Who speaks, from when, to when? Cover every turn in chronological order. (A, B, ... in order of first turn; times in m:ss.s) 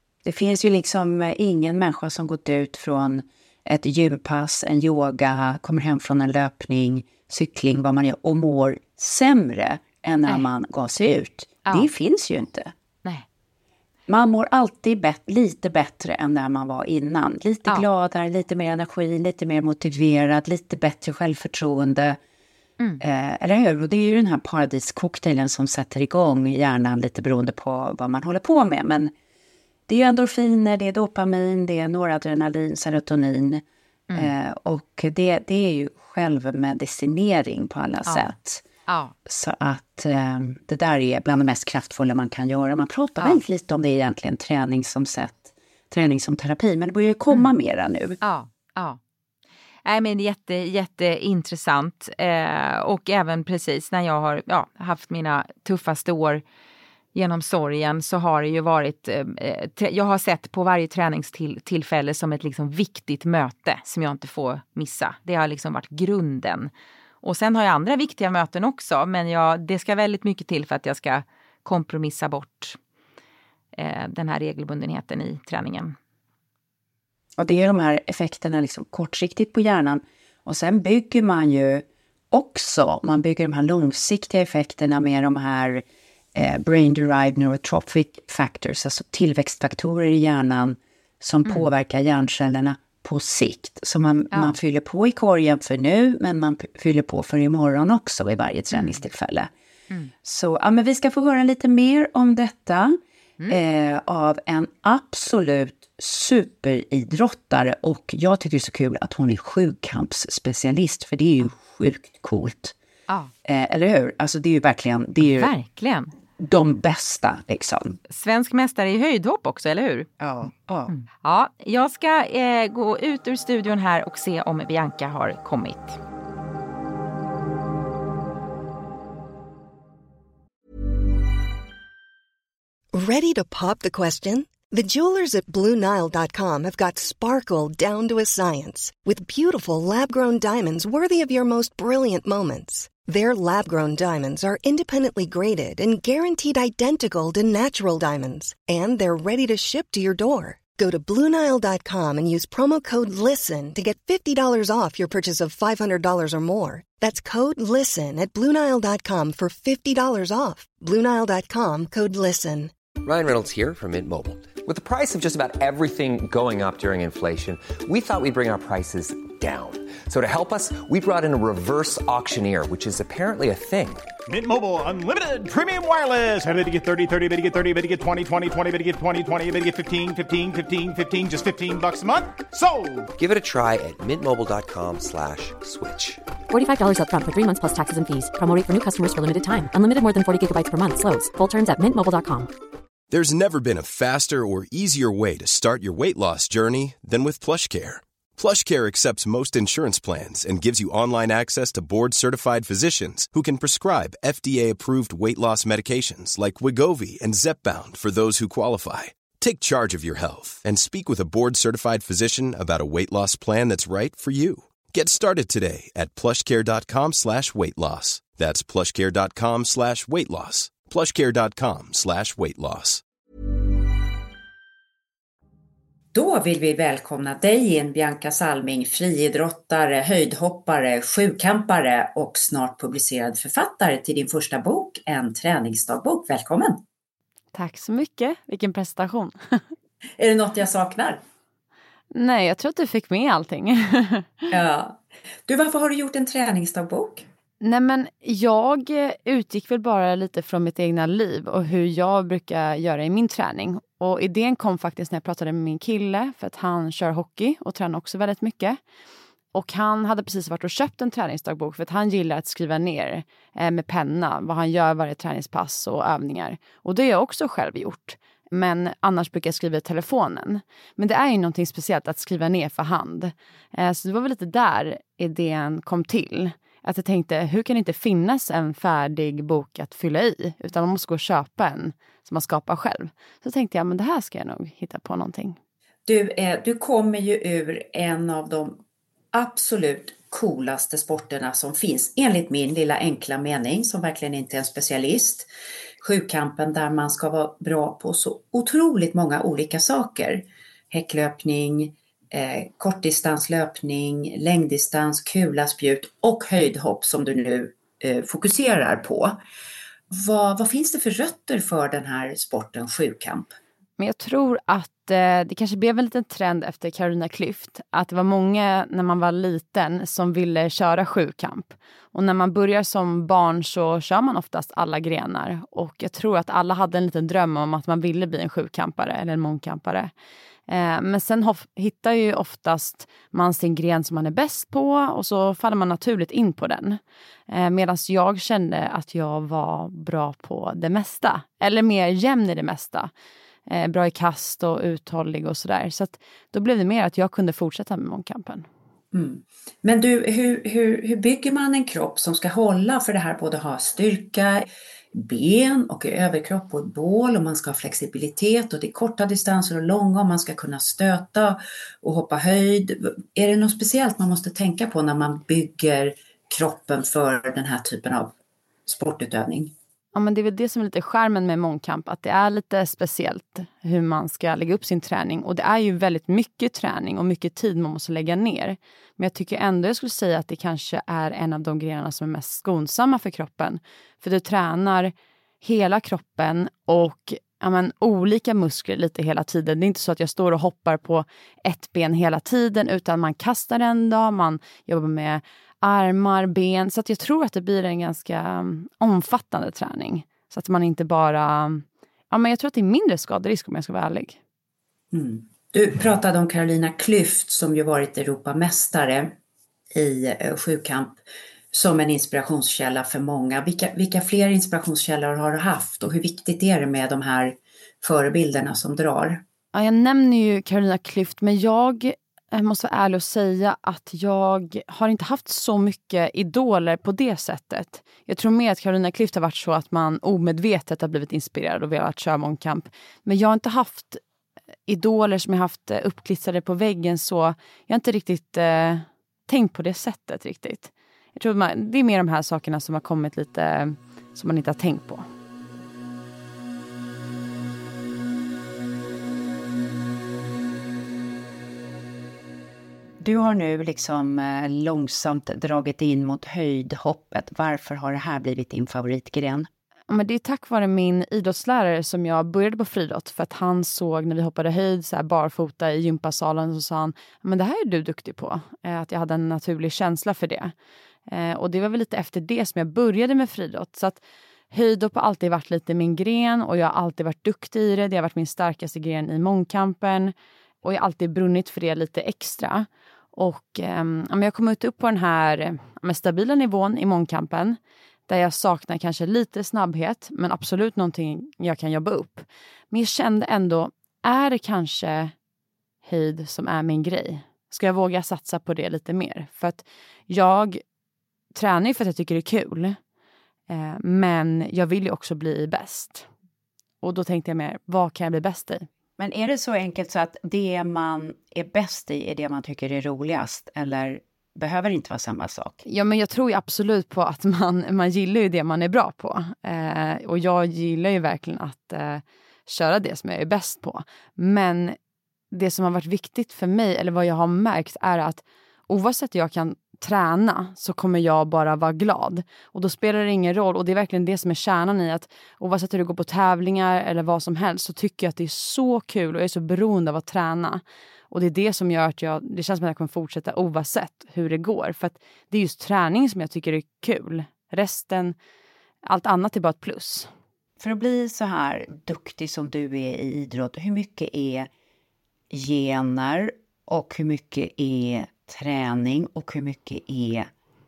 0:00.2-0:12.7 A
0:14.1-0:22.2 A
0:23.0-0:29.1 A
0:29.9-0:33.6 A
0:34.1-0:38.6 A
0:38.9-0:39.1 B
0:39.2-0:48.2 A
0:48.2-0:49.0 B
0:49.8-0:56.4 B
0:57.1-1:06.7 B
1:07.2-1:12.8 B
1:13.7-1:16.0 B
1:17.4-1:25.8 A
1:26.3-1:39.5 A
1:38.7-1:39.0 B
1:40.2-1:43.0 A
1:43.5-1:52.7 A
1:53.4-1:55.5 A
1:55.2-1:56.1 B
1:56.4-1:58.0 A
1:58.1-2:00.1 B
2:00.2-2:00.9 A
2:00.9-2:06.0 B
2:12.9-2:42.7 C
2:43.0-2:54.1 D
2:54.3-3:03.1 E
3:03.1-3:06.2 D
3:06.5-3:12.5 F
3:13.1-3:43.0 G
3:46.1-3:56.8 A
3:57.5-3:59.6 H
4:00.2-4:01.2 A
4:02.1-4:04.5 H
4:04.5-4:07.2 A
4:07.6-4:18.8 H
4:19.5-4:45.6 H
4:46.0-4:48.8 A
4:49.3-4:55.5 A
4:56.0-5:09.4 A
5:10.1-5:13.5 A
5:14.0-5:30.1 H
5:30.7-5:43.1 H
5:43.7-5:48.6 H
5:49.1-6:08.3 A
6:08.8-6:09.7 A
6:10.1-6:44.4 H
6:45.1-6:49.3 A
6:49.9-6:51.1 A
6:51.7-6:59.4 A
6:59.7-7:14.2 H
7:14.9-7:25.2 H
7:33.2-7:39.7 A
7:40.1-7:50.7 H
7:51.3-7:54.2 H
7:54.7-8:15.3 H
8:16.0-8:20.8 H
8:21.5-8:23.0 H
8:23.7-8:26.3 H
8:27.0-8:28.9 H
8:29.2-8:35.8 A
8:35.8-8:45.0 H
8:45.5-9:08.4 H
9:09.0-9:10.3 H
9:10.8-9:14.7 A
9:15.5-9:20.5 A